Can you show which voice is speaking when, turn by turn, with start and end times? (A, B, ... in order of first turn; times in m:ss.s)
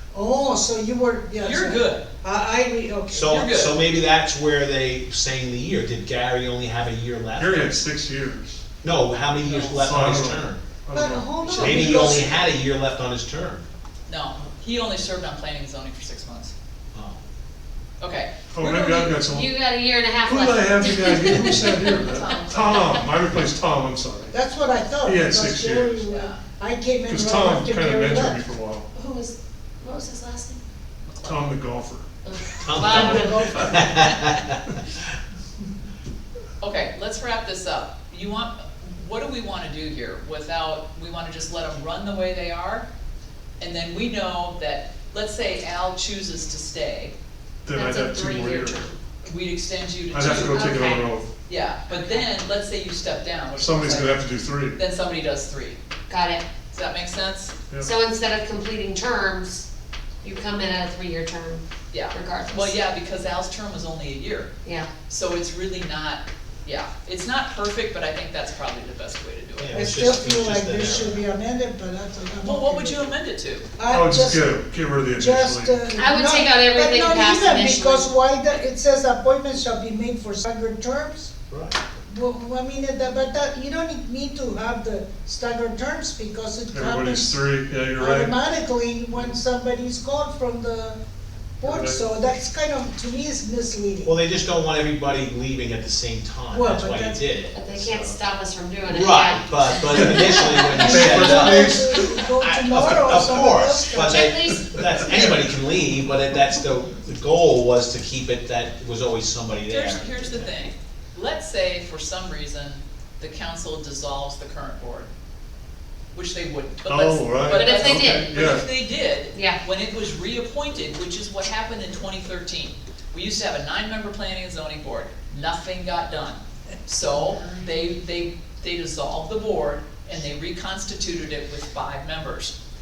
0:00.1-0:03.4 A
0:01.4-0:02.1 B
0:03.1-0:07.7 C
0:03.2-0:03.8 B
0:07.4-0:08.6 D
0:08.8-0:10.6 C
0:09.4-0:09.9 B
0:09.5-0:12.3 D
0:10.9-0:12.5 A
0:11.5-0:13.6 C
0:14.1-0:16.5 B
0:18.0-0:19.2 B
0:18.5-0:19.6 D
0:19.2-0:22.0 E
0:20.2-0:24.4 D
0:22.0-0:23.0 B
0:24.3-0:28.4 A
0:25.0-0:26.1 D
0:26.1-0:26.4 B
0:27.0-0:28.9 D
0:28.9-0:30.6 E
0:31.0-0:31.6 B
0:31.2-0:32.1 D
0:32.2-0:33.7 E
0:32.6-0:35.0 C
0:32.7-0:34.3 D
0:33.0-0:34.1 A
0:36.6-0:42.9 B
0:43.6-0:47.2 B
0:47.6-0:48.9 D
0:47.7-0:49.0 E
0:49.2-0:50.7 B
0:50.1-0:51.3 D
0:50.3-0:51.0 E
0:51.5-0:55.8 B
0:51.9-0:52.3 E
0:53.6-0:54.8 D
0:56.1-0:56.5 E
0:56.7-0:57.6 B
0:57.8-0:59.7 E
1:00.2-1:02.8 E
1:01.9-1:04.5 B
1:04.6-1:04.9 E
1:05.1-1:09.8 B
1:09.6-1:11.2 C
1:09.7-1:13.1 A
1:12.4-1:13.7 B
1:13.8-1:14.6 A
1:13.9-1:15.9 D
1:15.1-1:21.3 A
1:15.9-1:18.1 E
1:21.5-1:21.8 C
1:22.1-1:27.4 A
1:26.7-1:28.4 D
1:28.0-1:31.0 A
1:31.6-1:34.1 A
1:31.6-1:32.1 D
1:34.0-1:37.6 C
1:36.5-1:37.2 A
1:37.5-1:40.7 E
1:37.7-1:38.2 D
1:38.8-1:50.5 C
1:39.9-1:43.4 D
1:40.4-1:44.3 A
1:44.0-1:44.6 E
1:44.5-1:45.5 D
1:49.7-1:55.1 B
1:56.1-2:12.5 B
1:56.9-1:58.7 D
1:57.5-1:58.4 E
1:59.3-1:59.6 E
2:07.1-2:07.7 E